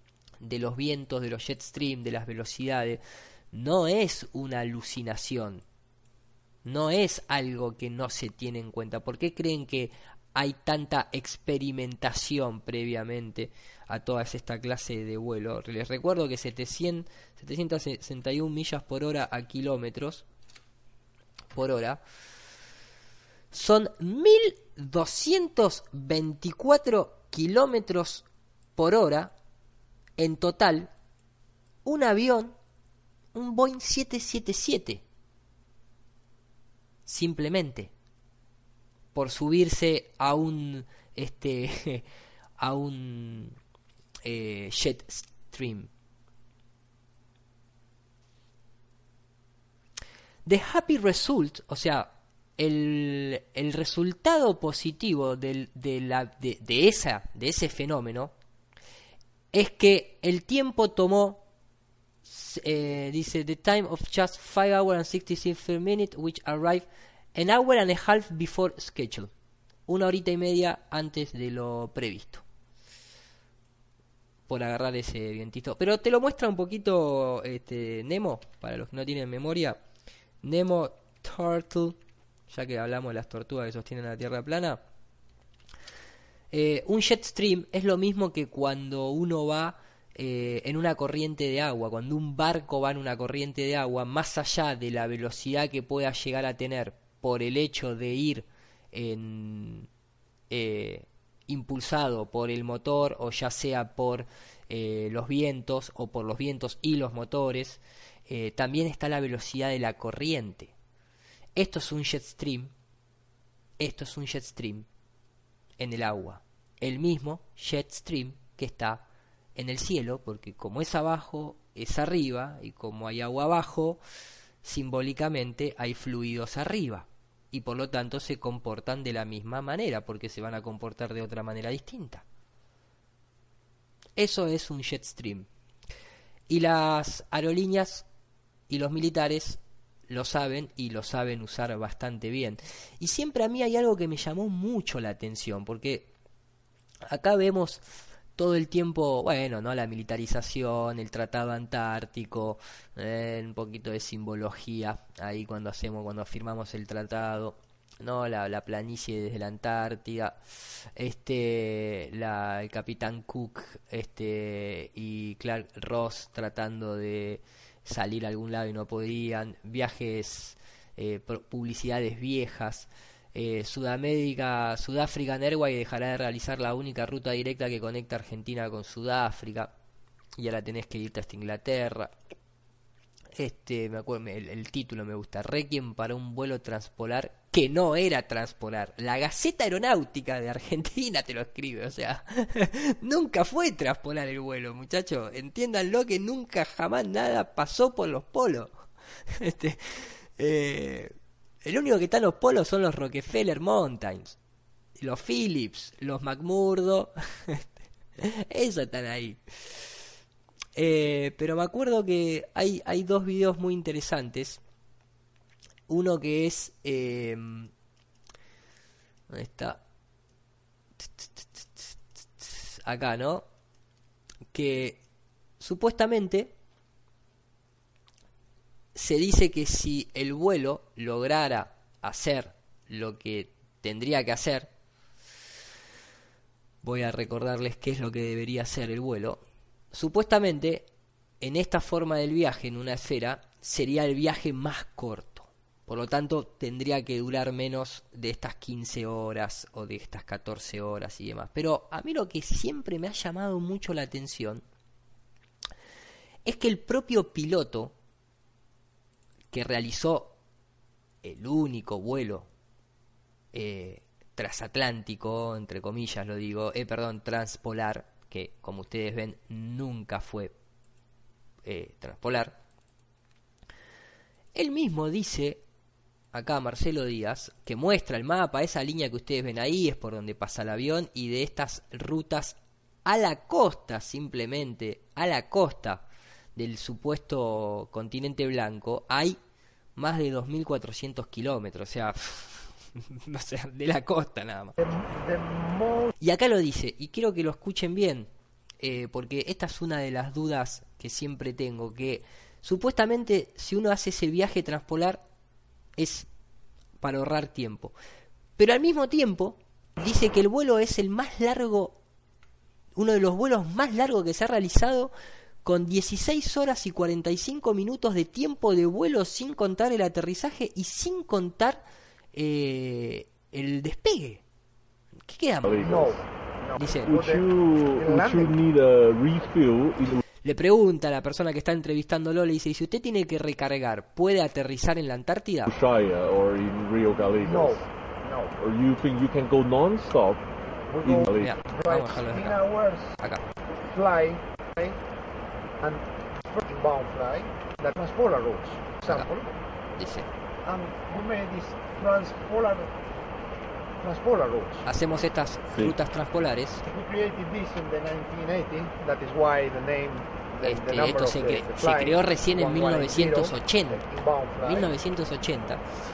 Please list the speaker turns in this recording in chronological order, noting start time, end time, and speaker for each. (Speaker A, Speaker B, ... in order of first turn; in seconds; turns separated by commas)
Speaker A: 0.4-3.0, Speaker A: 3.5-5.6, Speaker A: 6.7-20.2, Speaker A: 21.5-22.0, Speaker A: 23.5-28.2, Speaker A: 28.8-29.3, Speaker A: 30.2-30.9, Speaker A: 31.9-32.6, Speaker A: 33.3-35.0, Speaker A: 37.1-37.9, Speaker A: 39.1-42.1, Speaker A: 42.6-43.6, Speaker A: 44.2-45.9, Speaker A: 50.5-58.3, Speaker A: 59.5-61.4, Speaker A: 62.3-69.3, Speaker A: 69.9-72.4, Speaker A: 74.5-79.8, Speaker A: 80.4-82.0, Speaker A: 82.5-84.8, Speaker A: 86.5-99.9, Speaker A: 100.5-110.7, Speaker A: 111.6-112.7, Speaker A: 113.8-114.9, Speaker A: 115.8-119.0, Speaker A: 119.5-124.0, Speaker A: 124.6-132.2, Speaker A: 134.2-135.5, Speaker A: 136.5-138.1, Speaker A: 138.7-146.1, Speaker A: 147.1-147.8, Speaker A: 148.4-160.4, Speaker A: 161.0-179.7, Speaker A: 180.4-182.1, Speaker A: 183.4-198.7, Speaker A: 199.4-204.4, Speaker A: 205.0-209.4, Speaker A: 210.8-214.6, Speaker A: 215.9-217.7, Speaker A: 219.3-219.8, Speaker A: 221.2-221.8, Speaker A: 222.4-223.5, Speaker A: 224.5-225.0, Speaker A: 225.6-226.5, Speaker A: 228.9-234.7, Speaker A: 236.8-239.4, Speaker A: 239.9-240.9, Speaker A: 241.4-254.6, Speaker A: 256.4-257.9, Speaker A: 259.5-260.4, Speaker A: 261.2-262.5, Speaker A: 263.5-270.5, Speaker A: 271.6-272.6, Speaker A: 274.6-275.6, Speaker A: 276.3-286.0, Speaker A: 286.6-289.4, Speaker A: 290.0-294.8, Speaker B: 294.8-296.1, Speaker A: 296.2-305.2, Speaker A: 306.0-306.3, Speaker A: 307.0-307.9, Speaker A: 308.6-312.0, Speaker A: 313.0-315.1, Speaker A: 315.6-321.8, Speaker A: 322.3-324.4, Speaker A: 325.3-326.2, Speaker C: 325.6-326.1, Speaker B: 325.8-328.6, Speaker A: 326.8-327.1, Speaker C: 327.1-330.2, Speaker A: 330.4-335.7, Speaker C: 335.7-337.8, Speaker B: 337.1-338.5, Speaker C: 338.6-340.4, Speaker B: 340.9-343.2, Speaker C: 341.0-341.6, Speaker A: 341.4-342.6, Speaker B: 343.9-345.0, Speaker B: 345.8-349.6, Speaker A: 350.0-350.3, Speaker B: 350.6-352.9, Speaker B: 354.0-354.9, Speaker A: 354.9-356.8, Speaker B: 356.9-364.9, Speaker A: 360.6-364.1, Speaker A: 364.6-365.8